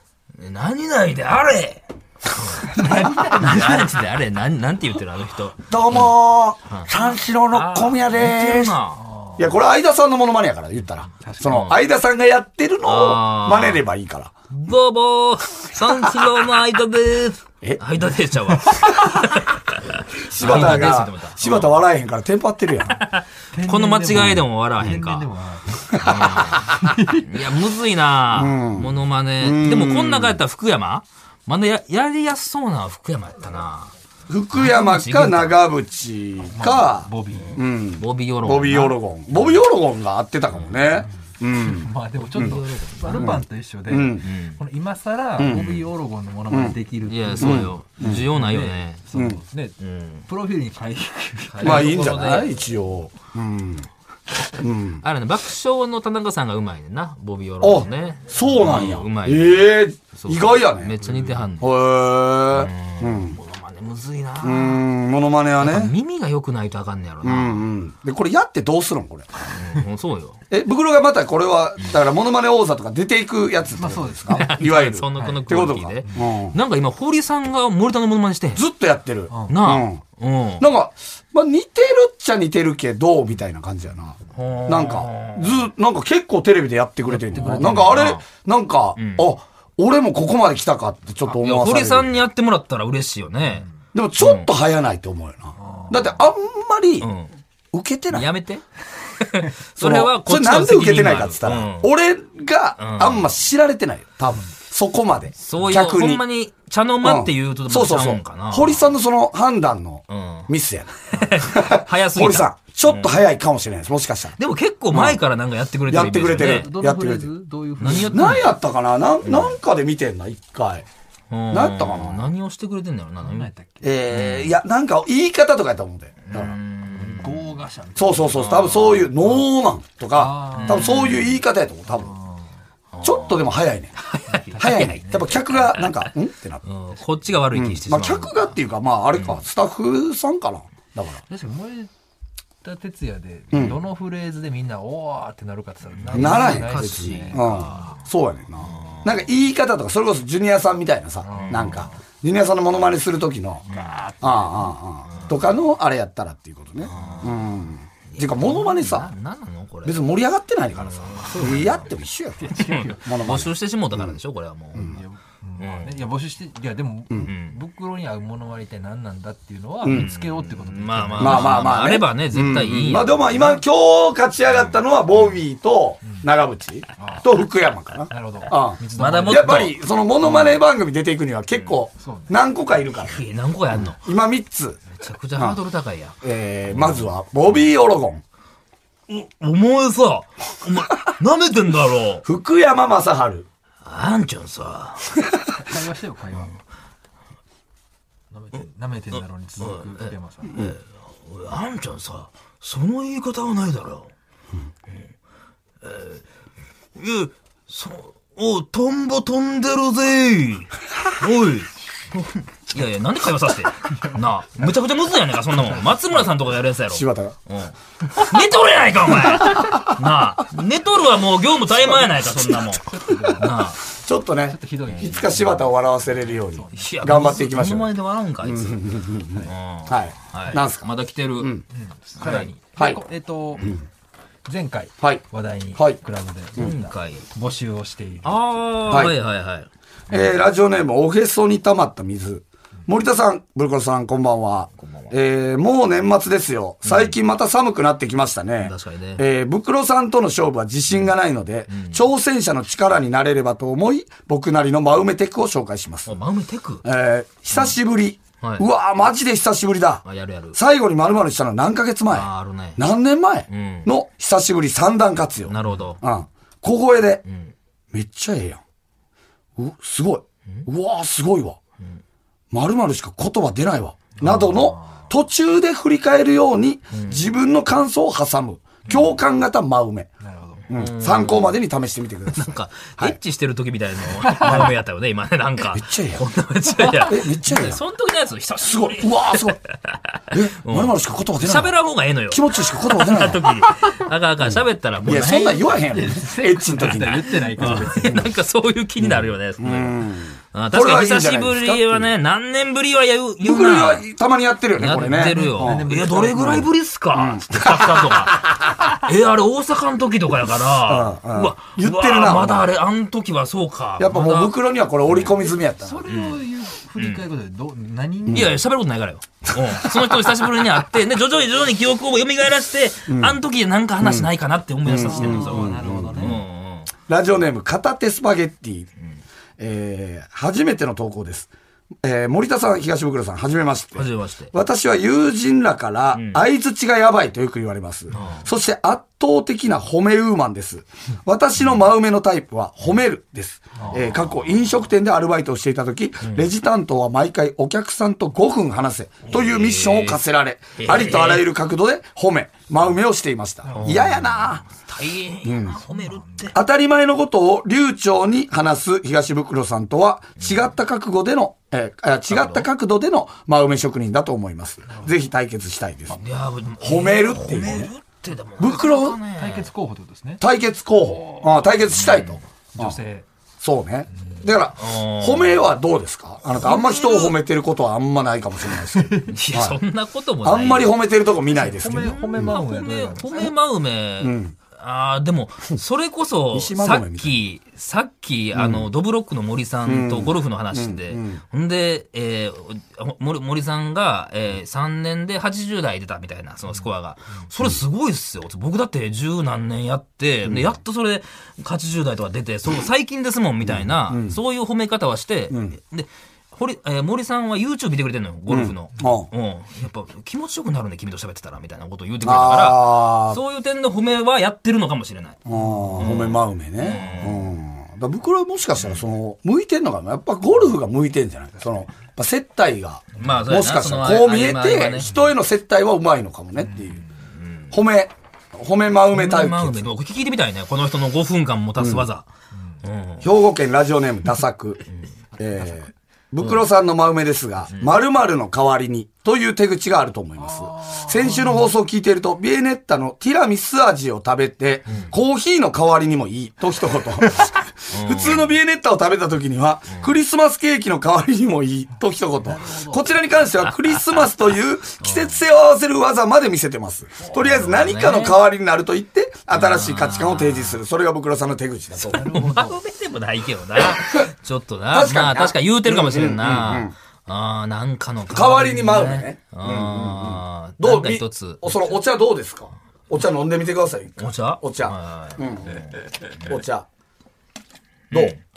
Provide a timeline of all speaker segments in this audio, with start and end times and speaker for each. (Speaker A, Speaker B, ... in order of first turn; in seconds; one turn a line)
Speaker A: 0.3-6.1
Speaker B: 2.7-4.0
Speaker C: 5.7-8.8
Speaker A: 6.7-9.0
Speaker B: 8.9-9.5
Speaker C: 9.4-14.3
Speaker B: 11.2-11.7
Speaker A: 11.4-11.8
Speaker A: 12.8-13.8
Speaker A: 14.5-21.8
Speaker C: 15.9-16.2
Speaker C: 18.7-19.2
Speaker C: 20.1-23.0
Speaker A: 22.9-25.3
Speaker B: 23.5-26.0
Speaker C: 25.9-26.8
Speaker A: 25.9-33.9
Speaker B: 26.7-27.3
Speaker C: 28.3-30.4
Speaker C: 34.3-42.6
Speaker A: 34.5-35.7
Speaker B: 36.4-37.6
Speaker A: 38.0-39.0
Speaker B: 41.5-49.7
Speaker A: 42.3-43.4
Speaker C: 43.1-44.2
Speaker A: 44.2-44.6
Speaker C: 45.4-45.8
Speaker C: 46.5-46.8
Speaker A: 47.1-49.0
Speaker C: 47.4-48.3
Speaker C: 49.1-49.4
Speaker A: 49.8-50.2
Speaker B: 50.3-52.1
Speaker A: 51.5-52.6
Speaker C: 51.6-53.9
Speaker C: 54.5-55.0
Speaker A: 55.0-61.7
Speaker C: 57.6-63.4
Speaker A: 62.5-64.8
Speaker C: 64.4-65.9
Speaker A: 65.6-67.7
Speaker C: 67.2-69.6
Speaker A: 69.5-70.4
Speaker C: 70.5-76.6
Speaker B: 73.8-74.5
Speaker A: 74.3-78.6
Speaker B: 75.1-76.3
Speaker C: 78.5-80.0
Speaker B: 79.3-79.6
Speaker A: 79.5-80.7
Speaker C: 80.6-92.1
Speaker A: 84.3-85.7
Speaker B: 87.1-88.0
Speaker A: 87.3-88.2
Speaker A: 89.0-89.3
Speaker A: 91.3-93.7
Speaker B: 93.5-93.8
Speaker C: 93.9-97.1
Speaker A: 94.2-94.5
Speaker B: 95.5-96.1
Speaker A: 97.0-97.3
Speaker C: 97.7-98.3
Speaker A: 98.1-98.6
Speaker A: 99.2-101.9
Speaker C: 99.8-106.2
Speaker A: 102.8-103.3
Speaker A: 105.4-108.9
Speaker C: 107.0-114.4
Speaker A: 110.1-110.5
Speaker A: 111.1-113.1
Speaker A: 114.4-116.7
Speaker C: 114.9-115.2
Speaker C: 115.9-117.3
Speaker B: 116.4-118.5
Speaker A: 117.8-118.5
Speaker C: 117.9-120.8
Speaker A: 119.2-119.5
Speaker A: 121.3-123.5
Speaker C: 121.5-122.2
Speaker B: 123.2-123.9
Speaker C: 123.8-126.5
Speaker A: 124.1-124.5
Speaker A: 126.2-127.5
Speaker B: 126.9-128.4
Speaker C: 128.0-132.1
Speaker A: 128.3-129.3
Speaker B: 130.1-131.1
Speaker A: 130.5-131.4
Speaker B: 131.9-132.5
Speaker A: 132.9-136.1
Speaker C: 133.0-133.9
Speaker B: 134.3-135.4
Speaker C: 134.6-136.6
Speaker A: 136.6-138.6
Speaker C: 137.5-141.2
Speaker A: 139.1-139.4
Speaker B: 141.3-141.9
Speaker B: 142.6-147.9
Speaker C: 143.5-143.8
Speaker A: 146.0-148.0
Speaker C: 146.1-153.6
Speaker A: 148.6-149.2
Speaker B: 151.2-151.9
Speaker A: 151.3-151.9
Speaker A: 153.7-154.0
Speaker B: 153.7-155.2
Speaker C: 154.2-159.1
Speaker A: 156.8-157.5
Speaker B: 156.9-157.2
Speaker A: 158.1-160.0
Speaker C: 159.8-164.1
Speaker A: 160.8-161.8
Speaker B: 161.2-161.8
Speaker B: 162.4-163.3
Speaker A: 162.6-165.0
Speaker B: 164.8-171.7
Speaker A: 165.6-166.0
Speaker A: 167.2-167.6
Speaker C: 169.8-170.1
Speaker A: 169.8-173.3
Speaker C: 171.2-183.2
Speaker B: 173.3-173.6
Speaker B: 177.0-177.2
Speaker B: 178.1-179.6
Speaker A: 178.9-180.6
Speaker B: 182.0-182.4
Speaker A: 182.9-184.1
Speaker C: 183.8-184.8
Speaker A: 184.9-186.2
Speaker C: 186.2-188.2
Speaker A: 186.7-187.1
Speaker A: 189.1-192.2
Speaker C: 192.2-193.4
Speaker A: 193.8-195.2
Speaker B: 195.6-196.5
Speaker B: 198.3-200.6
Speaker A: 199.1-204.1
Speaker A: 205.8-206.2
Speaker A: 206.9-223.8
Speaker C: 216.9-217.3
Speaker C: 219.4-219.9
Speaker C: 222.1-222.6
Speaker B: 222.8-223.6
Speaker C: 223.9-227.9
Speaker B: 224.4-225.7
Speaker B: 226.2-227.0
Speaker A: 226.8-231.6
Speaker C: 228.4-230.9
Speaker B: 231.7-233.8
Speaker A: 232.2-232.5
Speaker B: 234.4-238.4
Speaker A: 236.6-237.3
Speaker A: 238.2-240.3
Speaker C: 238.9-239.2
Speaker C: 240.1-256.1
Speaker A: 244.8-245.1
Speaker A: 246.8-247.1
Speaker A: 248.6-249.2
Speaker A: 251.7-252.0
Speaker A: 256.1-256.8
Speaker C: 256.8-267.2
Speaker A: 258.4-258.6
Speaker A: 260.0-260.6
Speaker A: 262.1-262.9
Speaker A: 263.5-263.9
Speaker A: 265.5-266.0
Speaker A: 267.3-267.5
Speaker C: 267.9-268.6
Speaker C: 269.6-271.6
Speaker C: 272.5-280.1
Speaker A: 274.2-274.6
Speaker B: 274.2-275.1
Speaker A: 276.9-277.3
Speaker B: 280.2-280.6
Speaker A: 280.7-281.6
Speaker C: 280.7-283.2
Speaker A: 282.3-295.7
Speaker B: 284.2-284.7
Speaker C: 285.7-286.2
Speaker B: 286.8-287.0
Speaker C: 287.0-287.8
Speaker C: 288.6-289.6
Speaker C: 290.3-291.7
Speaker C: 292.3-293.6
Speaker C: 294.5-298.2
Speaker B: 295.9-298.2
Speaker A: 297.6-304.1
Speaker C: 299.0-302.1
Speaker C: 303.4-308.9
Speaker A: 304.8-314.5
Speaker B: 305.1-306.6
Speaker C: 310.9-312.7
Speaker C: 314.0-316.0
Speaker A: 315.1-315.3
Speaker B: 315.4-318.6
Speaker A: 316.1-316.4
Speaker A: 316.9-317.2
Speaker C: 318.3-318.5
Speaker A: 318.3-326.9
Speaker C: 319.8-320.5
Speaker C: 323.1-323.4
Speaker C: 324.0-324.3
Speaker C: 324.8-326.4
Speaker B: 324.9-326.4
Speaker C: 327.1-328.9
Speaker C: 329.6-331.5
Speaker C: 332.0-354.6
Speaker A: 333.9-334.5
Speaker A: 336.1-336.4
Speaker A: 338.1-338.4
Speaker B: 343.7-344.1
Speaker A: 343.9-344.5
Speaker A: 349.3-350.2
Speaker A: 350.8-351.5
Speaker B: 353.6-354.1
Speaker A: 353.7-356.6
Speaker C: 355.4-355.8
Speaker B: 355.9-356.5
Speaker C: 356.5-366.2
Speaker A: 362.3-362.6
Speaker A: 366.1-369.7
Speaker C: 366.8-367.9
Speaker C: 368.6-369.2
Speaker B: 369.4-370.4
Speaker C: 370.4-373.0
Speaker B: 371.1-371.5
Speaker A: 371.9-372.4
Speaker B: 372.7-373.2
Speaker C: 373.6-379.8
Speaker A: 374.8-375.7
Speaker A: 376.5-377.4
Speaker B: 379.0-379.3
Speaker A: 379.3-380.9
Speaker C: 380.4-382.5
Speaker B: 381.5-383.5
Speaker A: 381.8-415.4
Speaker C: 384.2-384.5
Speaker C: 386.5-387.3
Speaker C: 388.5-388.9
Speaker C: 389.8-391.4
Speaker C: 400.4-400.7
Speaker C: 403.7-404.4
Speaker C: 405.5-405.8
Speaker C: 408.5-409.3
Speaker C: 412.2-413.4
Speaker C: 415.4-427.0
Speaker B: 415.6-415.9
Speaker A: 415.9-417.5
Speaker A: 423.2-425.1
Speaker B: 426.6-427.0
Speaker A: 427.3-427.7
Speaker C: 427.7-429.8
Speaker A: 429.1-432.2
Speaker C: 431.8-432.1
Speaker A: 432.8-433.3
Speaker C: 433.2-434.8
Speaker C: 435.4-462.2
Speaker B: 440.4-441.7
Speaker A: 447.9-448.5
Speaker B: 452.4-453.1
Speaker A: 455.0-455.4
Speaker A: 457.3-458.4
Speaker A: 459.5-460.8
Speaker B: 462.1-462.8
Speaker A: 462.1-471.9
Speaker C: 463.9-464.2
Speaker C: 464.9-466.9
Speaker C: 468.3-475.8
Speaker A: 474.2-476.6
Speaker C: 476.4-476.9
Speaker A: 478.1-478.4